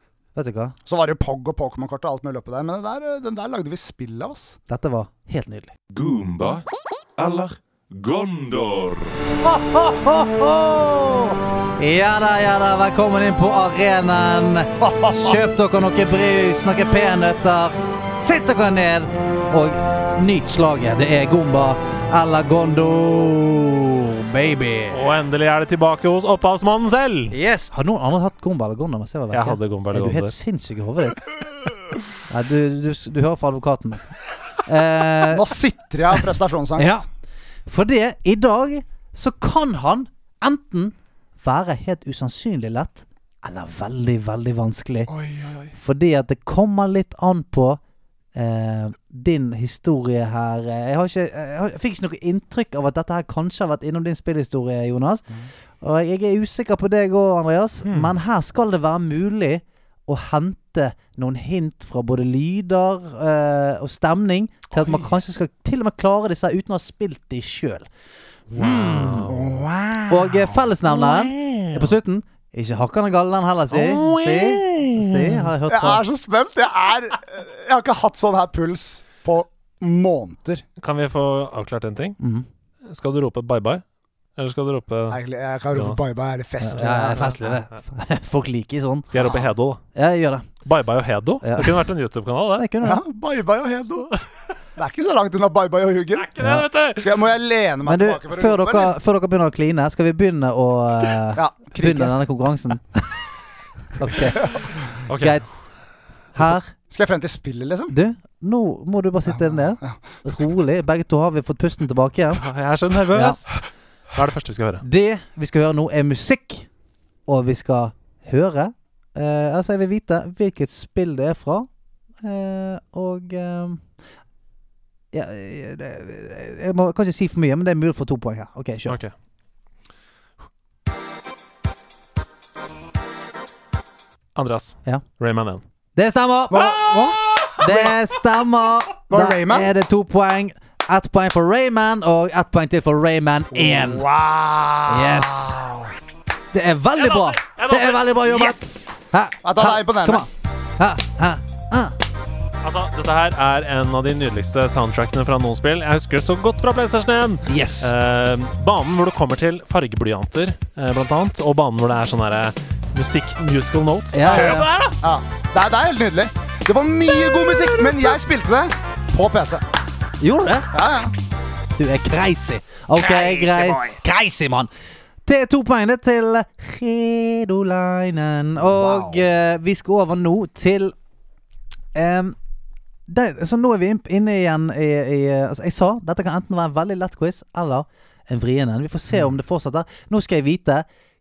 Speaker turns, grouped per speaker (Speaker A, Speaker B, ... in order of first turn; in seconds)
Speaker A: 0.3-0.8, 4.7-5.7, 9.4-25.0, 27.3-31.3, 32.3-34.1, 34.6-35.5, 36.8-37.0, 37.7-45.1, 45.8-47.8, 48.3-55.3, 55.8-67.9, 68.5-69.3, 70.1-76.0, 82.2-82.5, 86.6-89.1, 89.9-90.5, 91.4-91.9, 92.6-93.0, 97.8-103.3, 104.0-105.5, 106.3-106.7, 107.9-112.5, 113.0-113.4, 114.8-116.7, 117.3-121.7, 122.2-123.8, 125.1-129.0, 135.9-136.8, 137.6-144.0, 144.9-145.6, 146.5-151.9, 157.4-157.9, 164.1-164.7, 170.2-170.7, 171.8-174.7, 175.2-180.9, 181.9-182.3, 183.1-190.8
Speaker B: 0.9-4.6, 14.8-15.4, 35.3-37.0, 45.1-45.7, 69.3-70.6, 75.7-80.6, 85.1-87.5, 92.8-94.1, 94.8-96.3, 96.9-98.9, 101.3-102.1, 106.7-107.9, 109.3-110.0, 136.5-137.9, 139.1-139.7, 143.5-145.9, 149.4-150.2, 164.3-169.6, 170.7-171.1, 173.0-173.9, 178.6-179.2
Speaker C: 5.9-6.7, 7.2-9.2
Speaker D: 24.9-27.3, 29.3-30.3, 57.8-58.1, 68.5-69.6, 70.9-71.8, 73.7-75.4, 80.8-82.2, 82.8-83.8, 84.4-85.2, 85.7-86.0, 89.1-89.8, 90.6-92.7, 96.1-97.1, 105.0-105.4, 112.3-113.5, 114.1-114.8, 128.8-129.1, 134.3-135.6, 147.0-148.5, 152.6-164.9